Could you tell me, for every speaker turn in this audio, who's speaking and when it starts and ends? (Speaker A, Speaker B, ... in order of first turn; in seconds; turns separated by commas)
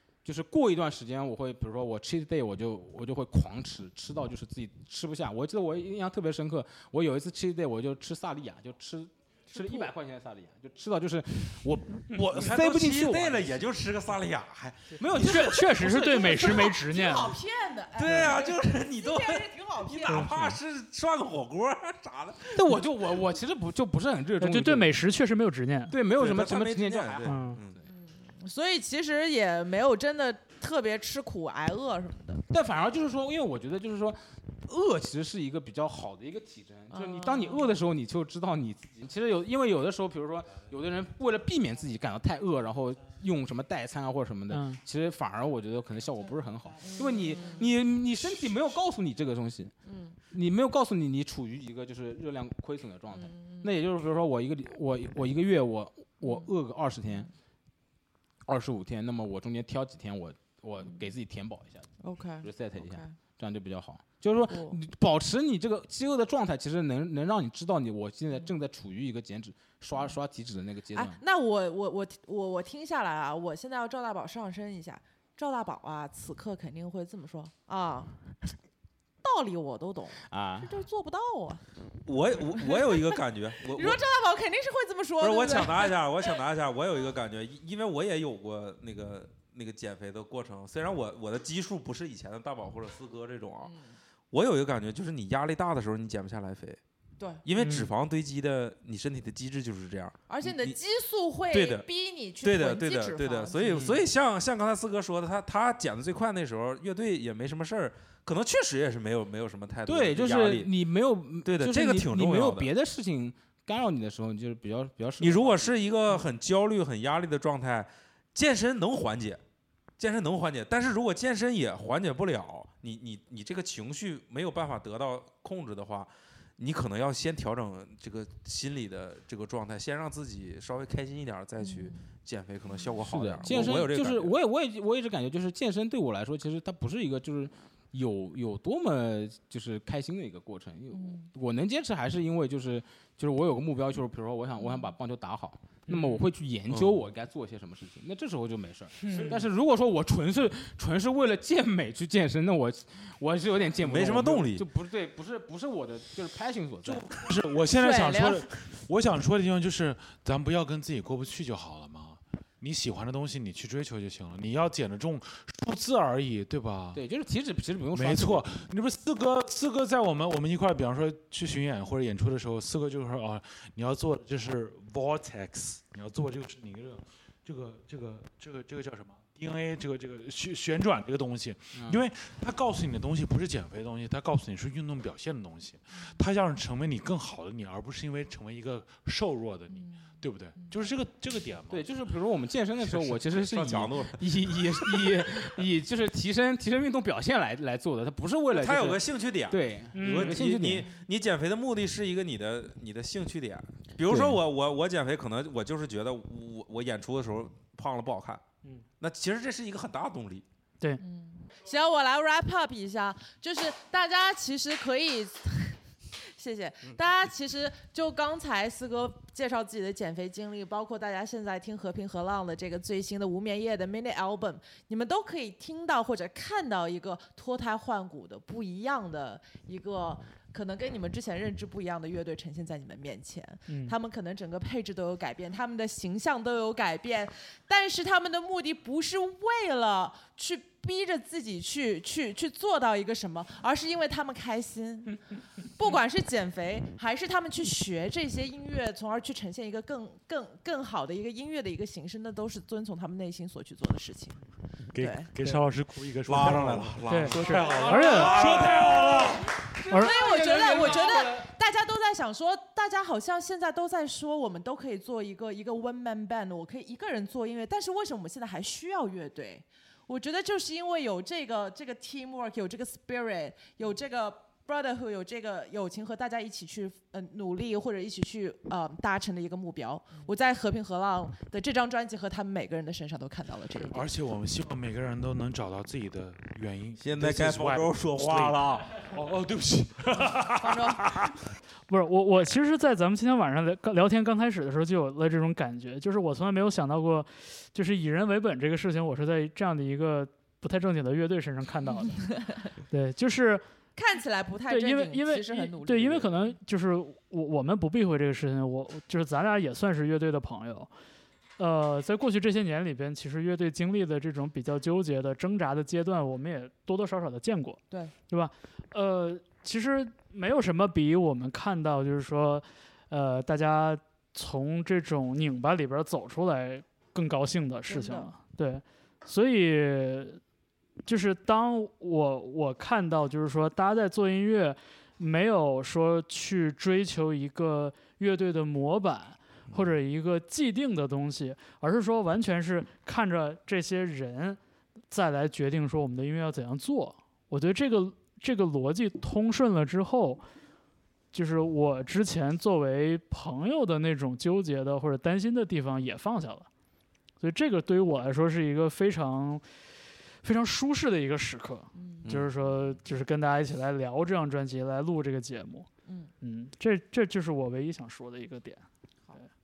Speaker A: 0.2-13.6, Speaker B: 9.6-9.9, Speaker C: 12.1-15.3, Speaker A: 15.0-16.8, Speaker D: 15.2-17.3, Speaker B: 16.1-20.3, Speaker C: 17.9-22.5, Speaker D: 20.1-20.6, Speaker A: 22.5-25.0, Speaker D: 24.4-25.9, Speaker A: 25.9-27.8, Speaker C: 26.1-27.8, Speaker D: 27.2-27.6, Speaker B: 27.8-32.4, Speaker A: 32.5-49.7, Speaker B: 36.9-37.8, Speaker D: 44.5-44.8, Speaker B: 46.8-47.7, Speaker B: 49.8-50.2, Speaker A: 50.3-57.3, Speaker B: 53.1-53.7, Speaker B: 56.2-56.5, Speaker A: 58.5-61.9, Speaker B: 62.0-63.2, Speaker A: 62.4-71.2, Speaker B: 64.5-64.8, Speaker B: 70.9-78.5, Speaker B: 79.2-81.6, Speaker A: 80.3-80.7, Speaker C: 82.1-84.0, Speaker B: 82.4-86.3, Speaker C: 85.2-93.7, Speaker B: 93.6-94.0, Speaker C: 94.3-96.8, Speaker C: 97.4-100.8, Speaker D: 97.6-97.9, Speaker B: 100.3-103.8, Speaker C: 101.5-101.8, Speaker C: 102.4-110.7, Speaker A: 103.7-104.0, Speaker A: 109.8-115.7, Speaker C: 111.4-112.7, Speaker C: 115.2-119.4, Speaker C: 120.0-134.3, Speaker B: 131.6-132.0, Speaker B: 132.7-132.9, Speaker A: 133.0-157.1, Speaker B: 140.9-141.3, Speaker B: 144.6-144.9, Speaker D: 145.9-146.3, Speaker C: 146.7-147.0, Speaker B: 149.0-149.4, Speaker C: 153.8-154.7, Speaker E: 156.9-167.0, Speaker B: 157.7-158.4, Speaker A: 166.9-168.5, Speaker E: 167.9-191.9, Speaker A: 181.7-182.0, Speaker B: 189.7-190.8, Speaker A: 191.7-200.9, Speaker C: 192.8-194.2, Speaker C: 194.8-195.2, Speaker C: 198.5-208.4, Speaker D: 199.9-200.4, Speaker C: 209.0-210.4, Speaker B: 211.0-245.2, Speaker D: 233.7-233.9, Speaker B: 245.8-254.4, Speaker E: 254.9-259.6, Speaker B: 255.0-255.3, Speaker C: 256.3-259.3, Speaker D: 257.1-258.4, Speaker A: 257.6-257.9, Speaker B: 259.9-284.0, Speaker A: 260.0-261.5, Speaker E: 283.8-291.3, Speaker C: 287.0-288.9, Speaker B: 290.6-291.0, Speaker D: 291.9-303.6, Speaker B: 302.1-302.5, Speaker B: 303.9-306.5, Speaker D: 304.7-310.9, Speaker D: 311.6-330.4, Speaker B: 327.9-328.3, Speaker D: 331.1-344.6, Speaker D: 345.1-350.4, Speaker D: 351.3-356.7, Speaker D: 357.4-359.6, Speaker D: 360.4-365.9, Speaker B: 361.9-362.3, Speaker B: 366.1-366.3, Speaker D: 366.4-368.8